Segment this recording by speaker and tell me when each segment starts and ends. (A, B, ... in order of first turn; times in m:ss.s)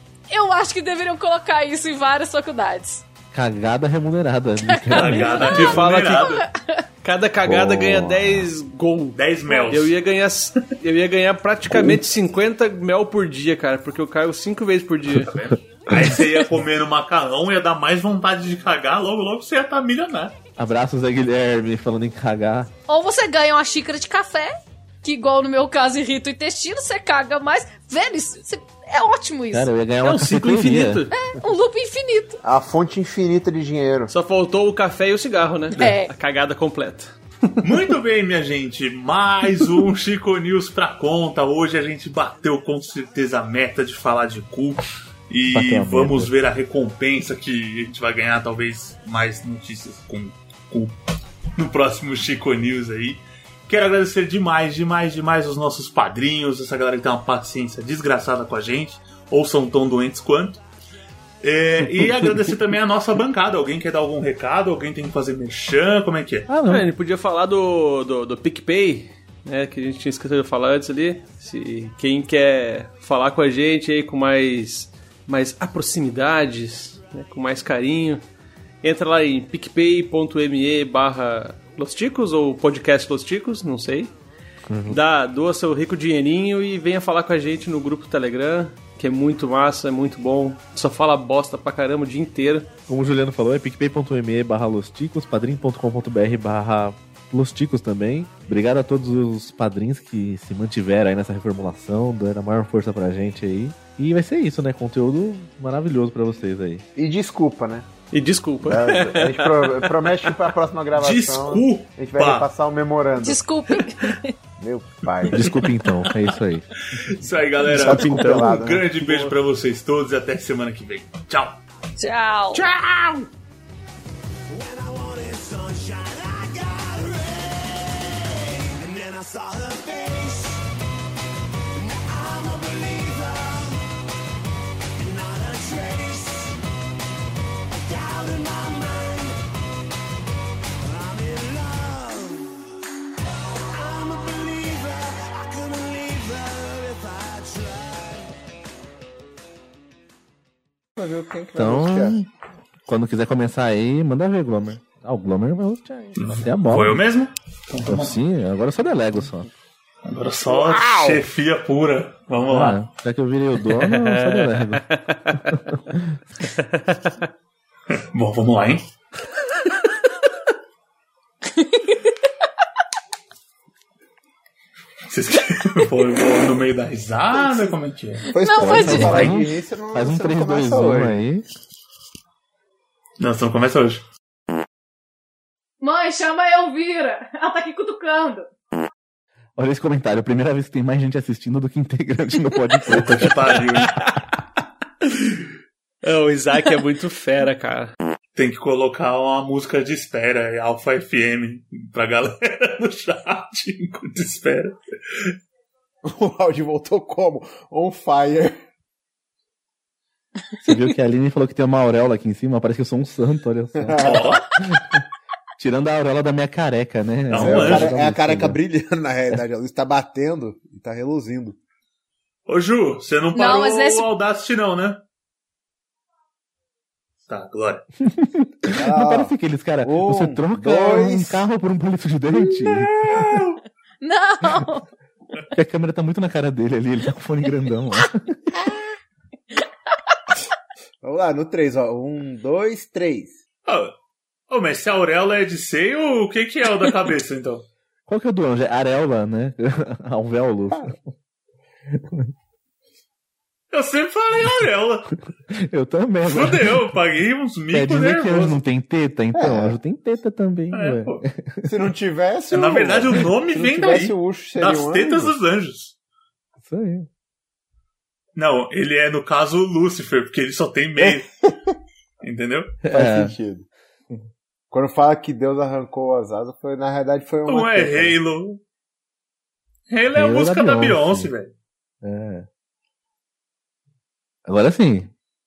0:00.3-0:03.0 A
0:03.3-0:05.5 B
0:04.6-0:06.8 A
0:04.9-0:06.4 C
0:05.4-0:06.3 D
0:07.0-0:09.2 D
0:07.4-0:08.5 B
0:09.1-0:09.9 C
0:09.5-0:09.7 A
0:09.7-0:15.4 D
0:11.7-0:12.0 B
0:15.4-0:20.4 C
0:20.6-0:22.7 B
0:22.9-0:24.5 A
0:25.0-0:29.7 A
0:29.5-0:31.0 B
0:30.0-0:31.1 D
0:31.1-0:32.4 A
0:32.4-0:34.1 E
0:34.1-0:37.6 D
0:35.7-0:36.1 A
0:37.6-0:51.0 C
0:45.5-0:46.3 B
0:51.6-1:00.6 C
1:01.4-1:06.5 C
1:06.5-1:06.9 B
1:06.7-1:18.2 D
1:18.8-1:24.1 D
1:24.7-1:25.0 B
1:24.9-1:32.7 D
1:32.9-1:46.8 B
1:47.0-1:47.9 E
1:48.1-1:49.8 D
1:48.6-1:53.4 E
1:50.9-1:52.5 C
1:53.2-1:54.3 A
1:54.6-1:55.6 E
1:55.2-1:55.7 C
1:55.3-1:56.6 B
1:56.9-2:01.6 C
1:57.7-1:58.8 E
1:57.7-1:59.3 D
2:02.0-2:02.6 A
2:02.6-2:03.2 E
2:04.5-2:10.6 F
2:11.8-2:13.8 F
2:15.0-2:16.6 F
2:17.7-2:19.4 F
2:20.8-2:22.6 F
2:23.7-2:28.3 F
2:31.0-2:32.2 E
2:31.6-2:32.3 B
2:32.8-2:37.0 B
2:36.2-2:38.2 C
2:37.8-2:39.5 B
2:40.0-2:42.8 C
2:40.4-2:41.2 E
2:42.5-2:44.8 B
2:43.7-2:45.6 D
2:45.5-2:46.2 B
2:46.4-2:47.3 D
2:47.9-2:48.9 C
2:51.6-2:52.0 A
2:55.1-2:58.3 C
2:58.3-3:01.2 E
2:58.4-2:59.3 A
2:58.6-3:01.4 B
2:58.8-2:59.4 C
3:03.2-3:04.0 C
3:05.8-3:08.5 A
3:09.6-3:13.3 B
3:12.9-3:14.0 C
3:13.8-3:14.2 D
3:15.0-3:15.4 D
3:16.0-3:17.9 D
3:18.3-3:25.4 C
3:26.0-3:28.6 E
3:30.6-3:35.0 B
3:33.8-3:34.4 E
3:34.0-3:34.5 C
3:35.6-3:38.6 B
3:37.3-3:37.9 C
3:37.3-3:41.6 E
3:42.4-3:45.0 C
3:43.3-3:44.1 A
3:47.3-3:47.8 C
3:48.0-3:53.3 B
3:48.7-3:51.4 E
3:52.9-3:53.6 C
3:54.0-3:54.8 A
3:55.5-3:58.4 B
4:01.0-4:03.4 E
4:03.6-4:03.9 C
4:04.5-4:07.6 C
4:08.1-4:11.0 B
4:13.7-4:15.1 C
4:15.5-4:16.8 B
4:16.3-4:18.6 C
4:17.7-4:21.7 B
4:19.3-4:19.8 E
4:20.7-4:21.2 C
4:21.6-4:25.3 E
4:22.5-4:25.9 C
4:26.6-4:27.1 B
4:28.4-4:31.3 C
4:31.0-4:31.7 E
4:32.2-4:32.7 C
4:32.8-4:33.3 B
4:32.9-4:33.7 E
4:34.7-4:38.2 E
4:37.4-4:38.6 C
4:39.9-4:41.5 C
4:40.1-4:41.3 B
4:42.0-4:42.5 B
4:44.4-4:45.1 B